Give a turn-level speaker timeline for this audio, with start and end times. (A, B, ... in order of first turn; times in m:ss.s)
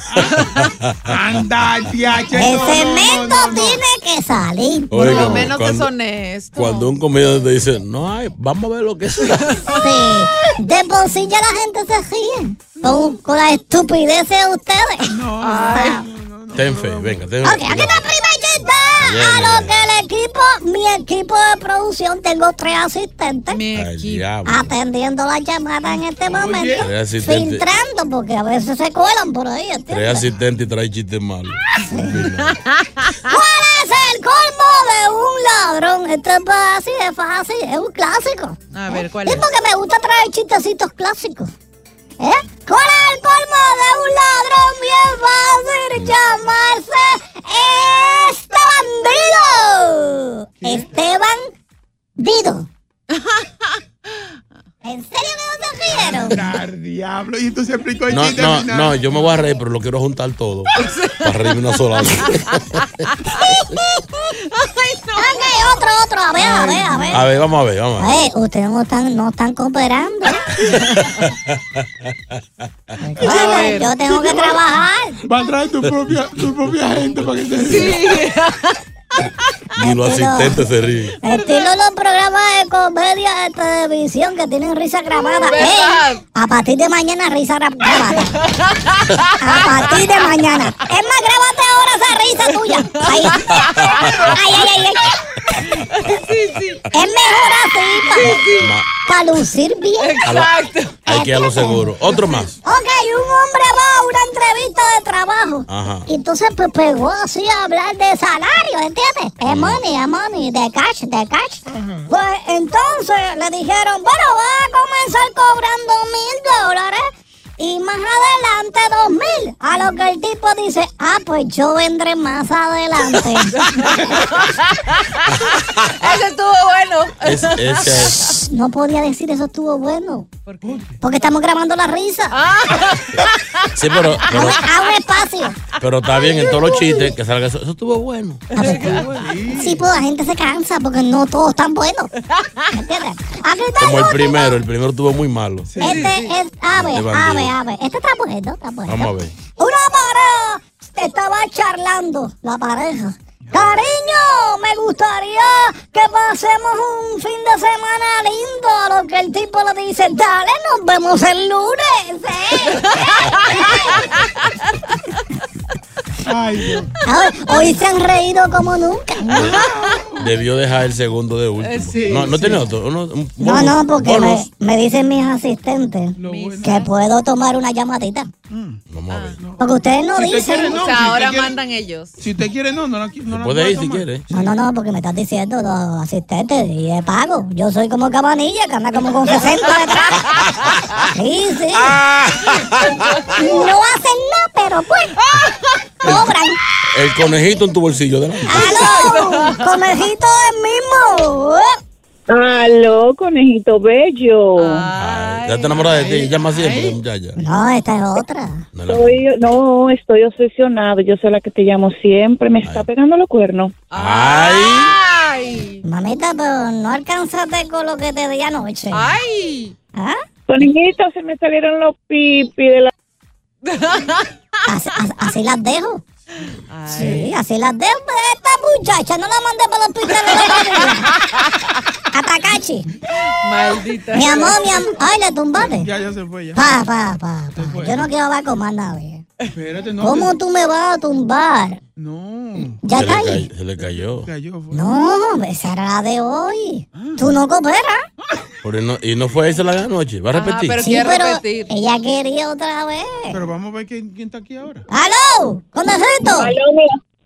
0:00.2-0:01.2 A
0:00.3-0:00.6 B
0:01.1-0:03.8 C
0:02.3-0:05.5 D
0:04.9-0:05.9 A
0:05.0-0:06.9 B
0:06.6-0:09.7 A
0:09.5-0:09.8 B
0:09.7-0:16.0 D
0:15.1-0:17.3 C
0:15.4-0:16.0 B
0:16.5-0:18.1 A
0:17.4-0:23.6 D
0:19.0-0:19.7 A
0:23.5-0:24.3 B
0:23.8-0:24.6 A
0:24.5-0:30.3 D
0:26.3-0:26.8 C
0:26.8-0:27.6 A
0:29.9-0:32.6 A
0:31.8-0:32.3 D
0:32.5-0:33.1 B
0:33.2-0:38.6 D
0:38.7-0:39.4 B
0:39.1-0:41.5 D
0:42.2-0:51.5 D
0:50.6-0:50.9 C
0:52.2-0:52.7 D
0:53.1-0:53.5 B
0:54.8-0:56.4 D
0:56.0-0:59.2 C
0:58.1-1:02.8 A
1:00.8-1:02.9 B
1:04.5-1:05.8 B
1:05.2-1:07.3 D
1:06.4-1:07.2 B
1:07.1-1:08.2 A
1:08.0-1:10.5 D
1:10.7-1:11.9 A
1:13.0-1:15.2 D
1:13.2-1:14.0 B
1:14.1-1:14.6 C
1:15.2-1:18.2 C
1:17.6-1:18.8 B
1:19.8-1:21.2 A
1:19.8-1:20.6 D
1:21.2-1:28.4 D
1:21.3-1:21.7 B
1:25.2-1:26.2 B
1:27.9-1:30.2 B
1:29.4-1:35.2 D
1:32.4-1:34.7 B
1:33.5-1:34.2 A
1:35.6-1:36.8 B
1:36.9-1:38.5 D
1:38.1-1:38.8 B
1:38.3-1:38.9 A
1:39.0-1:40.4 D
1:40.0-1:41.0 B
1:40.2-1:40.5 A
1:41.0-1:42.6 A
1:41.1-1:41.9 D
1:42.6-2:03.9 D
1:45.7-1:46.1 A
1:49.5-1:49.8 A
1:51.8-1:52.1 C
2:03.5-2:08.2 B
2:07.2-2:08.2 A
2:08.3-2:10.3 D
2:10.4-2:10.8 B
2:10.6-2:11.0 C
2:11.0-2:12.4 D
2:12.3-2:14.7 B
2:13.8-2:14.6 A
2:14.3-2:15.6 D
2:15.8-2:18.7 A
2:16.4-2:17.2 D
2:18.5-2:19.1 B
2:18.6-2:22.1 D
2:19.0-2:19.8 C
2:22.4-2:22.7 B
2:22.7-2:24.6 D
2:23.8-2:25.8 A
2:25.7-2:26.3 C
2:25.8-2:42.9 D
2:26.8-2:27.5 A
2:28.9-2:29.3 A
2:42.7-2:44.7 B
2:43.5-2:44.0 D
2:46.2-2:46.9 C
2:47.0-2:49.6 D
2:49.4-2:50.3 C
2:50.2-2:54.5 A
2:51.6-2:52.5 B
2:52.3-2:52.6 C
2:53.4-2:58.3 D
2:56.2-2:56.8 C
2:56.2-2:56.9 B
2:58.5-2:58.8 C
2:58.9-2:59.4 A
2:59.1-2:59.4 B
2:59.4-3:01.5 C
2:59.6-3:00.8 D
3:00.6-3:02.2 B
3:02.2-3:04.6 C
3:03.3-3:04.2 A
3:04.3-3:10.4 D
3:11.1-3:12.0 D
3:13.3-3:15.2 D
3:16.0-3:16.6 D
3:16.0-3:16.3 A
3:16.9-3:19.0 A
3:18.5-3:21.7 D
3:18.8-3:19.8 B
3:22.3-3:24.9 E
3:24.6-3:27.0 B
3:25.0-3:27.4 A
3:27.4-3:28.6 D
3:28.7-3:29.2 A
3:28.9-3:33.8 E
3:32.6-3:32.9 A
3:33.9-3:35.8 B
3:33.9-3:34.9 A
3:35.8-3:39.1 D
3:38.9-3:39.8 B
3:40.5-3:42.9 E
3:43.6-3:44.3 B
3:44.7-3:46.0 D
3:46.7-3:47.3 B
3:46.9-3:51.1 D
3:50.2-3:51.6 B
3:52.1-3:52.9 D
3:53.4-3:54.8 B
3:54.1-3:55.9 D
3:55.6-3:56.7 C
3:56.6-3:59.3 D
3:57.6-3:58.1 C
3:59.5-4:00.3 C
4:00.0-4:01.8 D
4:02.0-4:02.8 C
4:02.8-4:03.4 D
4:02.9-4:04.3 A
4:03.8-4:05.0 C
4:04.7-4:08.0 D
4:07.0-4:07.4 C
4:08.6-4:11.0 A
4:10.3-4:11.7 B
4:10.8-4:13.4 D
4:13.3-4:14.9 C
4:14.9-4:16.6 D
4:16.3-4:16.9 E